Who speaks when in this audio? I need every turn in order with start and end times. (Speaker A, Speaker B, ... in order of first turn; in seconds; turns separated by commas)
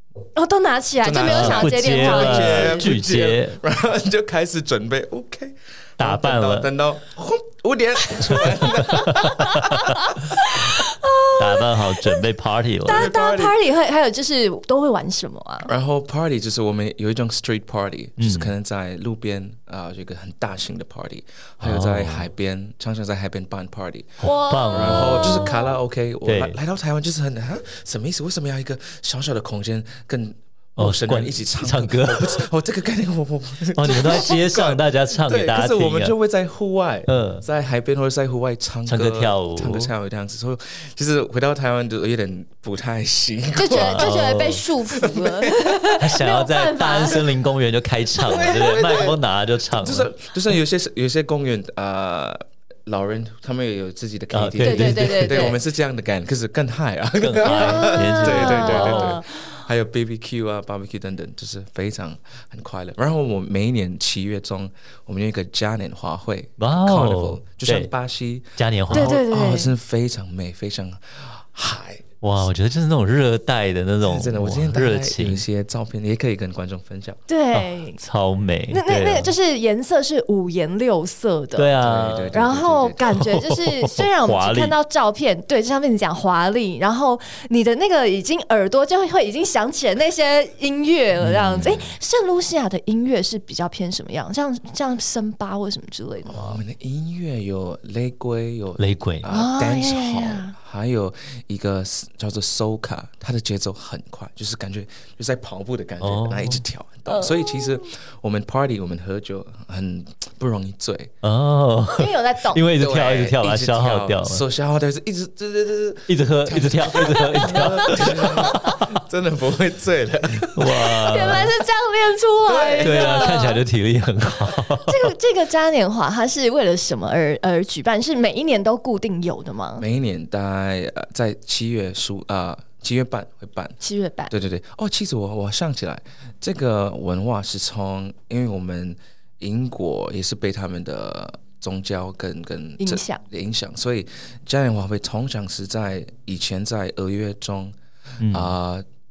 Speaker A: 0.3-2.9, Speaker B: 1.0-10.0, Speaker C: 1.1-3.6, Speaker C: 6.0-6.7, Speaker A: 8.8-12.2, Speaker C: 9.1-9.7, Speaker C: 11.4-13.1, Speaker A: 12.8-15.7, Speaker B: 12.8-13.5, Speaker B: 15.6-44.3, Speaker C: 18.2-18.5, Speaker C: 21.6-22.3, Speaker A: 24.2-25.7, Speaker C: 24.2-25.5, Speaker C: 26.2-26.6, Speaker C: 30.8-32.4, Speaker C: 33.7-36.1, Speaker A: 33.9-34.2, Speaker C: 37.1-37.4, Speaker C: 38.9-39.9, Speaker A: 43.5-47.3, Speaker C: 43.7-44.6, Speaker B: 45.0-45.6, Speaker C: 46.0-50.1, Speaker B: 48.2-72.1, Speaker C: 54.3-55.5, Speaker A: 54.6-55.6, Speaker C: 57.2-59.2, Speaker A: 57.4-59.3, Speaker C: 66.6-67.9, Speaker C: 68.6-69.2, Speaker A: 68.9-69.7, Speaker C: 72.2-75.4, Speaker B: 74.0-77.2, Speaker A: 77.3-78.0, Speaker C: 77.5-79.3, Speaker A: 78.7-81.7, Speaker C: 81.6-82.3, Speaker B: 81.8-83.3, Speaker A: 82.3-96.6, Speaker C: 83.1-84.8, Speaker C: 91.2-91.9, Speaker B: 96.3-111.1, Speaker C: 98.8-99.2, Speaker A: 99.3-100.5, Speaker C: 106.0-106.6, Speaker A: 107.1-107.8, Speaker C: 111.2-114.4, Speaker A: 112.0-112.7, Speaker B: 112.7-121.5, Speaker C: 116.1-119.0, Speaker A: 117.0-118.8, Speaker C: 120.5-121.5, Speaker A: 120.7-123.6, Speaker B: 122.4-123.4, Speaker C: 122.8-125.1, Speaker A: 124.8-129.8, Speaker B: 129.8-133.8, Speaker A: 133.8-134.3, Speaker B: 134.3-148.8, Speaker A: 142.8-143.2, Speaker C: 148.2-148.5